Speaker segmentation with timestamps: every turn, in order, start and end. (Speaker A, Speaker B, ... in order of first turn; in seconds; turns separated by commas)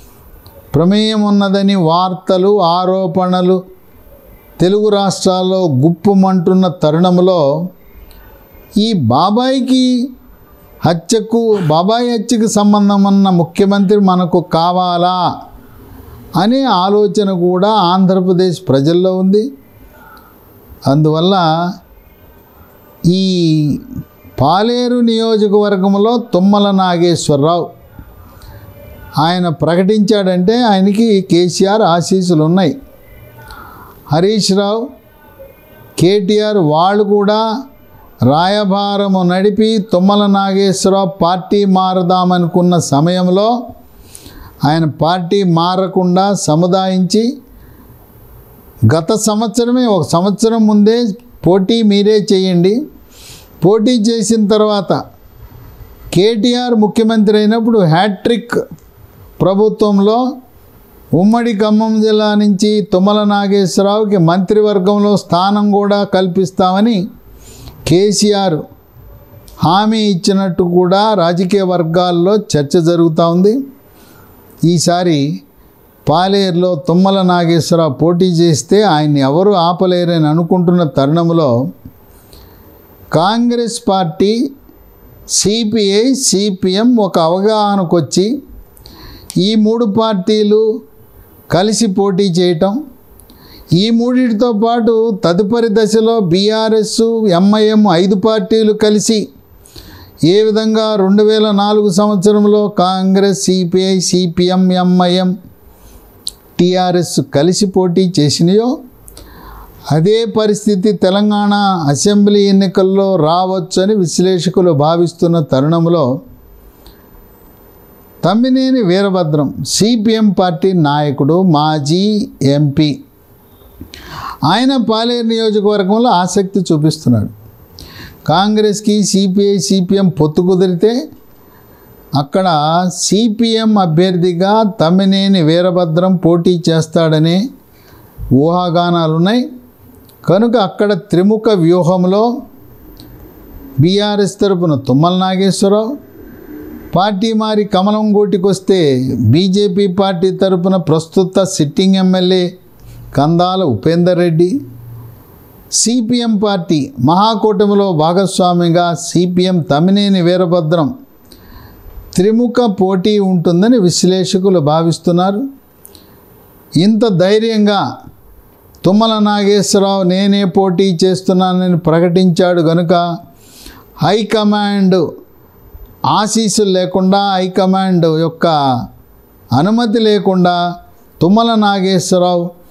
Speaker A: 0.7-3.6, Speaker A: 4.6-7.4, Speaker A: 8.8-9.9, Speaker A: 10.8-15.2, Speaker A: 16.4-19.4, Speaker A: 20.9-21.5, Speaker A: 23.1-23.8, Speaker A: 24.4-27.7, Speaker A: 29.2-32.7, Speaker A: 34.1-34.8, Speaker A: 36.0-37.4, Speaker A: 38.3-43.5, Speaker A: 44.6-47.3, Speaker A: 48.9-52.8, Speaker A: 53.6-55.0, Speaker A: 56.1-58.6, Speaker A: 59.4-60.2, Speaker A: 61.2-67.0, Speaker A: 67.9-68.6, Speaker A: 69.6-73.6, Speaker A: 74.7-75.3, Speaker A: 76.1-81.5, Speaker A: 83.1-84.4, Speaker A: 85.3-88.3, Speaker A: 89.4-90.7, Speaker A: 91.5-92.8, Speaker A: 93.8-99.2, Speaker A: 100.3-105.3, Speaker A: 106.6-108.8, Speaker A: 109.9-116.1, Speaker A: 118.2-122.9, Speaker A: 124.5-127.3, Speaker A: 128.3-131.0, Speaker A: 132.2-137.4, Speaker A: 138.4-139.4, Speaker A: 140.2-142.3, Speaker A: 143.8-145.9, Speaker A: 146.9-152.5, Speaker A: 153.1-154.6, Speaker A: 155.8-160.9, Speaker A: 162.1-165.4, Speaker A: 166.8-167.8, Speaker A: 168.8-173.1, Speaker A: 174.0-175.0, Speaker A: 176.1-178.5, Speaker A: 179.6-180.6, Speaker A: 181.2-182.5